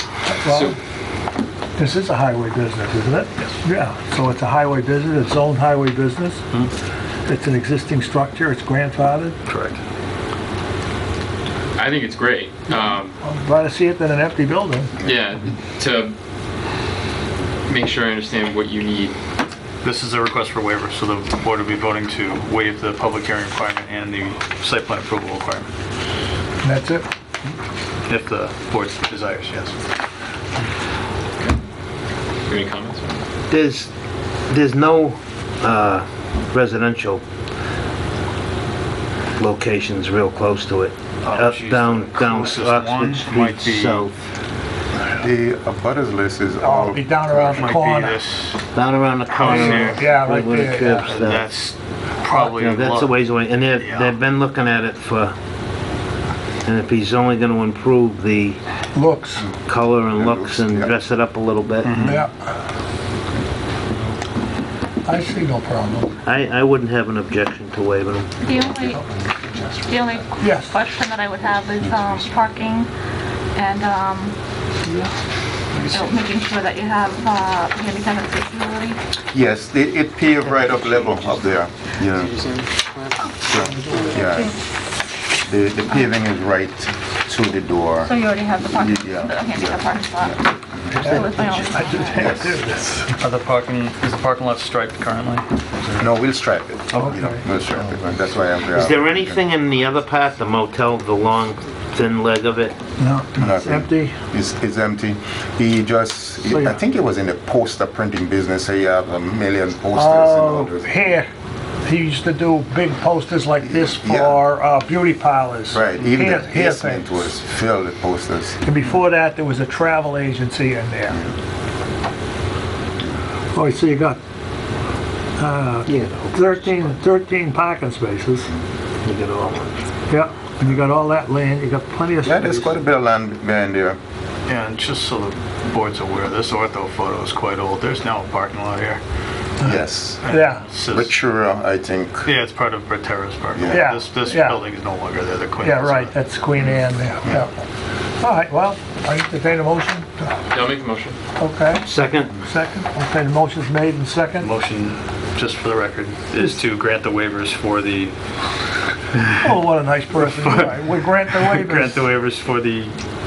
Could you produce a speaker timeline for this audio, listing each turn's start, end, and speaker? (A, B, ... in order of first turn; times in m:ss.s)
0:00.2-0:00.8 A
0:00.4-0:00.8 B
0:01.8-0:06.4 A
0:07.2-0:09.4 A
0:09.5-0:09.8 C
0:11.8-0:13.2 B
0:13.2-0:14.9 A
0:15.0-0:16.1 B
0:17.7-0:19.2 B
0:19.8-0:25.7 C
0:26.6-0:27.1 A
0:28.1-0:29.7 C
0:32.4-0:33.0 B
0:33.5-0:33.9 D
0:34.5-0:37.2 D
0:39.4-0:44.1 D
0:41.2-0:44.1 C
0:45.2-0:47.7 E
0:46.6-0:48.2 A
0:47.5-0:48.6 C
0:48.7-0:51.5 D
0:49.3-0:50.0 C
0:49.4-0:51.1 A
0:51.0-0:54.2 C
0:52.4-0:55.3 D
0:56.6-0:58.6 D
0:58.9-0:59.5 A
0:59.6-1:02.1 D
1:00.1-1:00.9 E
1:01.8-1:02.2 C
1:02.0-1:02.5 A
1:05.0-1:06.1 A
1:06.2-1:09.0 D
1:08.4-1:09.0 F
1:09.4-1:09.7 E
1:09.8-1:12.9 F
1:10.4-1:10.7 A
1:11.8-1:12.2 E
1:13.5-1:14.3 F
1:15.9-1:19.0 F
1:19.3-1:22.3 E
1:20.6-1:21.3 D
1:22.2-1:24.1 B
1:23.4-1:24.5 E
1:24.2-1:24.5 F
1:25.4-1:31.1 E
1:28.0-1:32.4 F
1:31.0-1:33.2 A
1:32.1-1:32.8 E
1:33.2-1:36.0 C
1:36.0-1:39.5 E
1:36.9-1:37.2 C
1:36.9-1:37.4 A
1:38.7-1:42.8 D
1:43.0-1:44.2 A
1:43.4-1:50.9 E
1:46.4-1:46.8 A
1:49.9-1:51.3 A
1:51.8-1:57.2 A
1:53.6-1:54.4 E
1:55.7-1:58.6 E
1:58.6-2:01.2 A
2:01.1-2:01.3 E
2:03.5-2:04.2 A
2:05.4-2:08.5 A
2:05.9-2:06.9 D
2:09.0-2:09.8 D
2:10.1-2:12.8 A
2:12.2-2:14.0 E
2:14.4-2:19.0 C
2:19.6-2:20.3 E
2:19.6-2:20.6 A
2:20.2-2:21.2 C
2:20.9-2:22.3 E
2:22.2-2:26.1 C
2:23.5-2:23.9 E
2:23.7-2:24.6 A
2:25.6-2:27.6 A
2:28.2-2:30.3 A
2:30.5-2:31.2 B
2:31.4-2:34.5 A
2:31.8-2:32.3 D
2:34.4-2:38.1 C
2:39.4-2:42.0 A
2:40.1-2:43.0 C